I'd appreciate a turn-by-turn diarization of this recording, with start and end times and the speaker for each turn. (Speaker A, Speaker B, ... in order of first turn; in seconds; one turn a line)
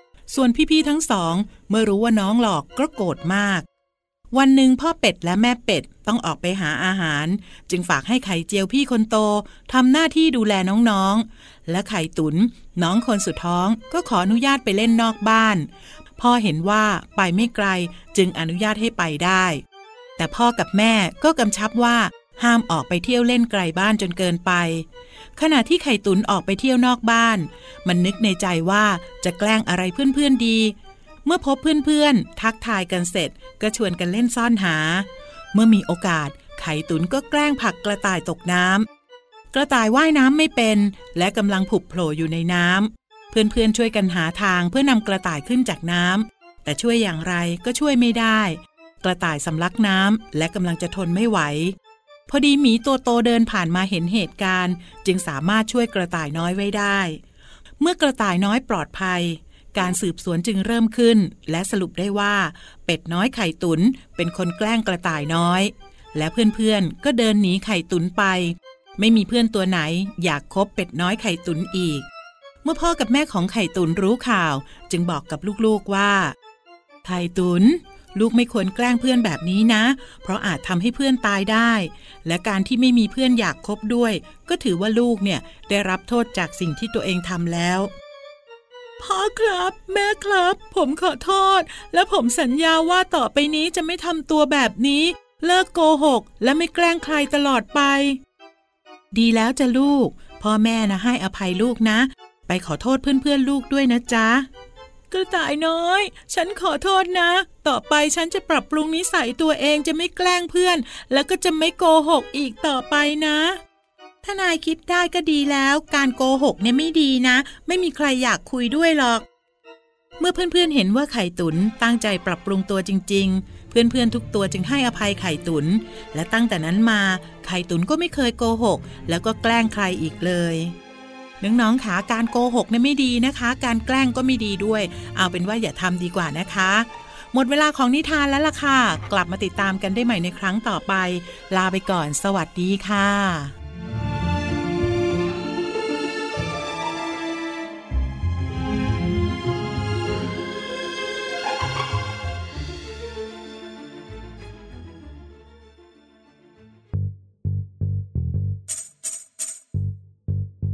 Speaker A: 0.3-3.6
Speaker A: 4.3-19.6
Speaker A: 20.2-38.9
Speaker A: 39.5-51.8
Speaker A: 52.3-57.2
Speaker A: 57.8-72.0
Speaker A: 72.6-76.3
Speaker A: 77.0-87.9
Speaker A: 89.0-98.2
Speaker A: 99.1-104.5
Speaker A: 105.1-113.6
Speaker A: 114.2-119.2
Speaker A: 120.2-130.8
Speaker A: 131.4-143.5